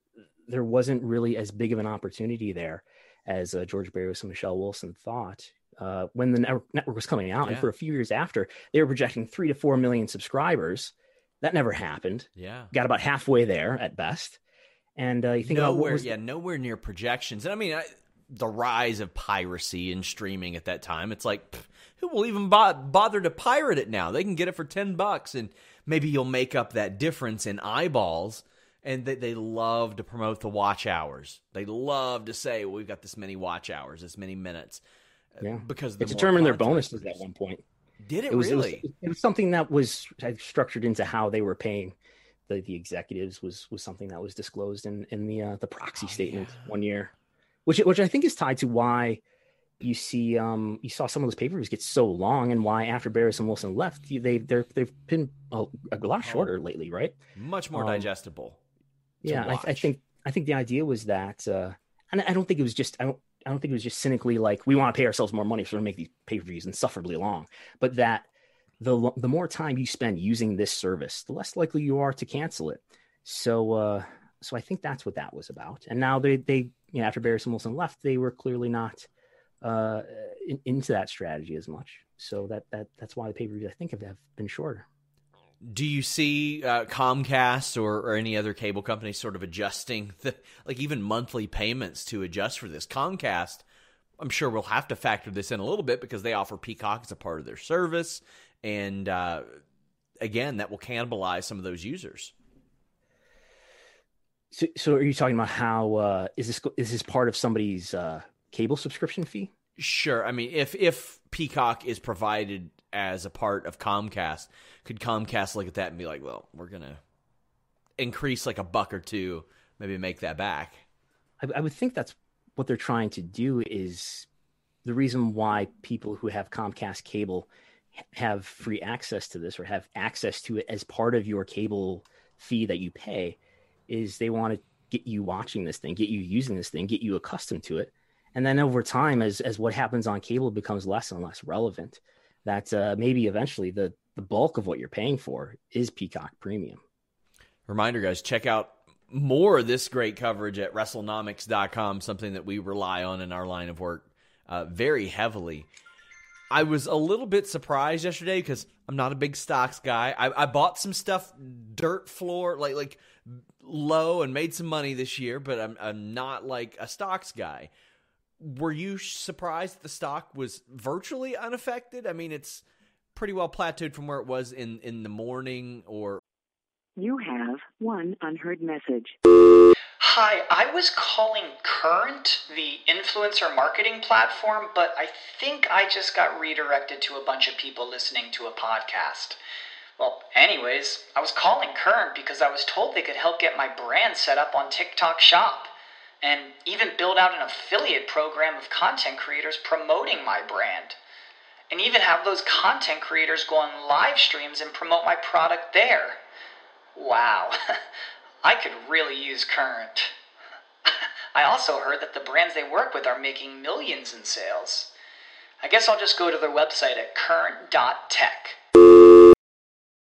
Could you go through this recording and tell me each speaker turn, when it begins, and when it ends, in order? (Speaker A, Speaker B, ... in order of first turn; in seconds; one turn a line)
Speaker A: 0.5-14.4
Speaker B: 7.4-7.7
Speaker B: 12.3-12.7
Speaker A: 15.0-16.1
Speaker B: 15.4-34.8
Speaker B: 35.3-37.2
Speaker A: 35.4-37.6
Speaker B: 38.0-38.9
Speaker A: 38.3-42.0
Speaker A: 42.5-47.1
Speaker B: 46.0-46.6
Speaker A: 47.6-49.2
Speaker A: 49.8-57.2
Speaker B: 56.2-56.5
Speaker B: 57.4-58.6
Speaker A: 57.7-58.1
Speaker A: 59.2-68.3
Speaker B: 59.2-59.9
Speaker A: 68.8-79.1
Speaker A: 79.6-84.8
Speaker B: 85.6-93.6
Speaker B: 94.2-99.6
Speaker B: 100.2-102.3
Speaker A: 104.5-109.5
Speaker B: 109.8-117.0
Speaker B: 118.0-120.8
Speaker A: 121.4-124.3
Speaker A: 124.8-127.5
Speaker A: 128.0-146.8
Speaker B: 147.7-155.7
Speaker B: 156.5-167.7
Speaker B: 168.4-172.6
Speaker B: 173.1-176.2
Speaker C: 177.0-179.1
Speaker D: 180.0-189.4
Speaker D: 190.0-201.0
Speaker D: 201.7-206.2
Speaker D: 206.9-207.6
Speaker D: 208.4-210.1
Speaker D: 210.9-214.9
Speaker D: 215.6-218.6